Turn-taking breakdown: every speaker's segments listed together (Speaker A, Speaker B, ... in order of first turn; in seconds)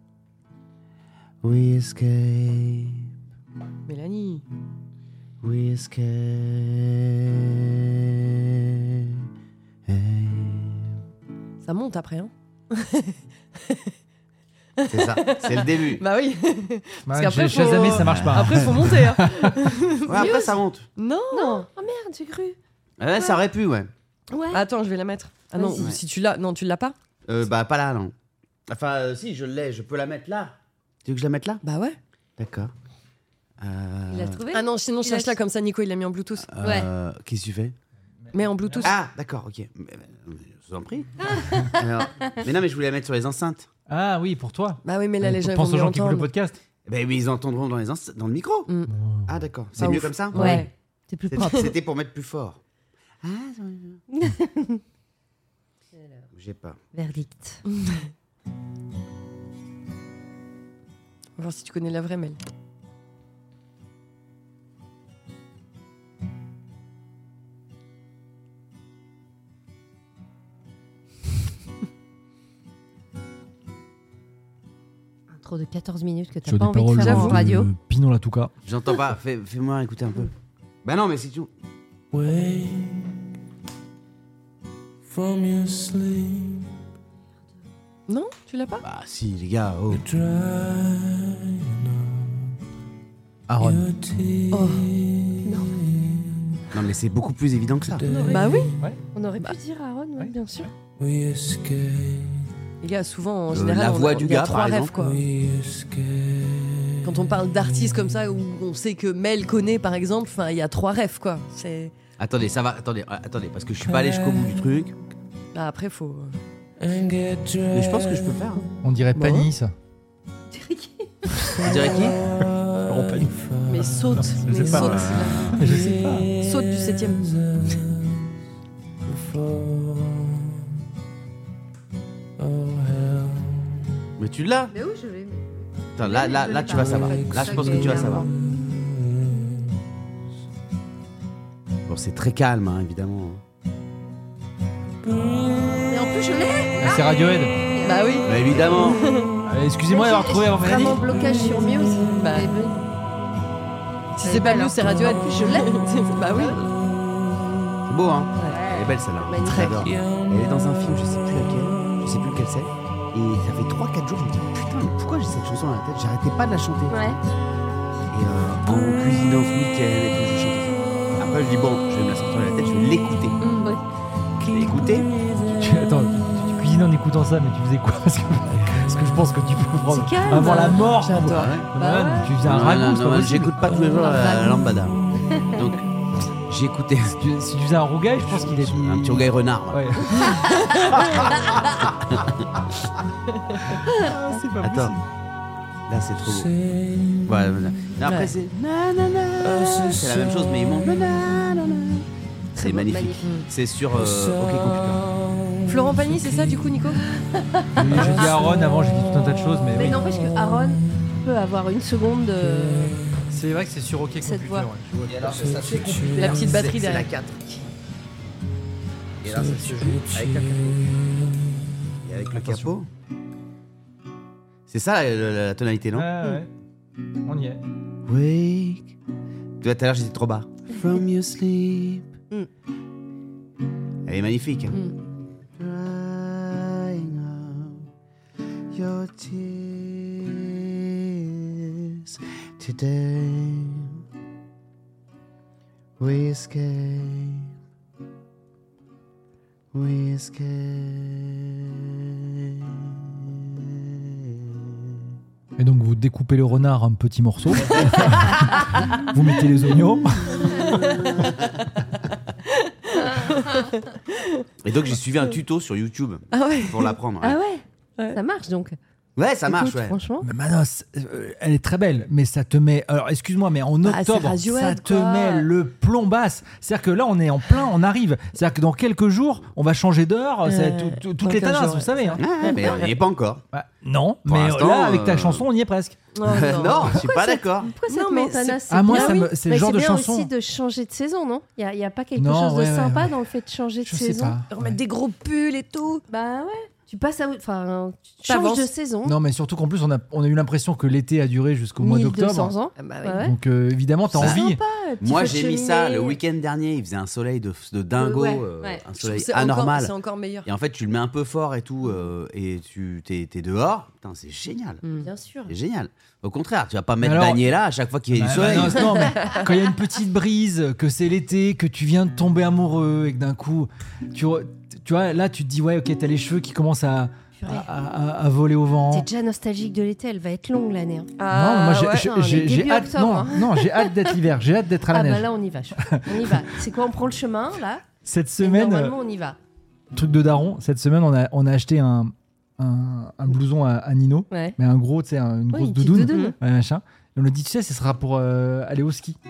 Speaker A: 1.4-3.1, 5.4-9.2, 9.9-10.9, 14.9-16.0, 17.8-18.9, 20.0-20.9, 23.0-23.9, 27.3-28.1, 28.7-31.6, 32.4-32.7, 33.6-34.4, 36.5-37.8, 38.8-43.7, 46.9-48.7, 49.3-50.6, 51.3-52.6, 53.2-54.0, 56.3-56.8, 78.6-80.3, 80.8-81.5, 88.8-90.0, 96.7-98.0, 103.5-105.0, 112.2-115.0, 117.7-118.7, 121.6-122.2, 125.1-125.6, 134.2-134.7, 136.0-138.3, 141.9-143.4, 148.2-149.0, 157.9-167.1, 168.1-173.4, 174.5-175.1, 181.2-181.7, 182.4-185.8, 186.5-187.2, 188.2-190.2, 191.0-192.8, 194.6-195.0, 195.9-196.5, 197.2-205.0, 214.9-217.4, 219.2-220.9, 222.0-222.9, 224.7-226.1, 228.1-228.9, 229.6-232.1, 234.1-234.8, 235.6-237.9, 238.7-244.0, 246.0-247.5, 249.7-255.1, 260.5-261.6, 264.6-267.4, 269.2-270.0, 282.2-283.4, 284.3-285.5, 286.2-287.7, 304.1-304.4, 305.0-309.9, 310.4-314.8, 315.5-319.0
Speaker B: 3.9-4.5, 11.7-13.8, 14.8-20.3, 21.0-21.7, 24.5-27.0, 31.6-32.0, 34.5-36.5, 38.3-39.0, 44.8-46.3, 49.8-50.7, 57.7-58.0, 61.4-62.4, 77.0-77.4, 88.1-88.8, 94.5-94.9, 98.2-98.7, 102.8-105.2, 107.0-111.9, 115.5-116.4, 119.2-119.5, 123.7-125.7, 126.3-127.3, 147.8-149.3, 152.2-152.5, 154.2-156.6, 173.4-173.7, 180.2-181.6, 198.0-198.3, 205.7-207.0, 216.2-217.6, 260.8-261.1, 262.5-264.4, 266.3-267.0, 273.8-275.5, 280.4-282.9, 286.1-286.9, 287.9-289.3, 294.5-296.0, 298.3-298.7, 302.8-303.3, 309.0-310.5, 314.8-315.1, 331.2-332.1
Speaker C: 17.1-19.6, 38.4-38.9, 43.9-46.6, 48.9-49.3, 50.3-50.6, 76.5-78.5, 93.5-93.9, 118.8-119.7, 122.9-123.4, 124.2-126.3, 146.8-147.6, 149.4-151.0, 175.6-183.6, 187.1-191.2, 193.8-195.0, 207.8-210.0, 213.3-216.1, 222.3-222.7, 225.9-226.5, 227.2-227.6, 255.6-260.6, 270.2-282.2, 283.5-286.0, 288.7-290.3, 292.2-293.2, 293.9-294.8, 299.1-302.5, 303.2-304.6, 317.0-317.5, 318.1-329.1, 331.3-336.4, 338.0-339.0, 339.9-349.2
Speaker D: 20.1-20.6, 21.3-22.6, 24.3-24.6, 25.6-25.9, 34.1-35.4, 36.6-36.9, 41.3-42.3, 50.4-51.7, 54.1-54.8, 56.0-56.2, 56.9-57.6, 75.3-77.7, 95.5-95.7, 99.2-100.7, 120.5-121.3, 134.7-138.3, 145.9-148.2, 149.9-152.9, 154.2-156.6, 158.5-159.8, 166.9-167.2, 179.9-180.9, 181.8-182.3, 183.9-184.7, 185.3-185.6, 202.6-203.3, 207.2-208.3, 209.7-213.0, 214.2-214.7, 263.1-263.5, 267.2-268.8, 269.4-270.3, 286.8-294.4, 296.1-299.2, 301.8-303.3, 304.1-306.2, 308.0-308.8, 315.0-315.5, 327.4-327.7, 328.9-331.1, 331.9-334.1, 334.9-337.9, 338.4-339.4, 344.3-344.6, 345.5-346.4
Speaker E: 82.1-83.1, 85.1-86.7, 89.9-92.2, 93.6-94.7, 98.1-98.4, 101.0-102.4, 105.0-106.9, 116.9-118.0, 129.3-130.1, 132.4-133.5, 196.4-197.2, 199.6-200.2, 204.1-205.0, 215.8-216.3, 219.3-220.8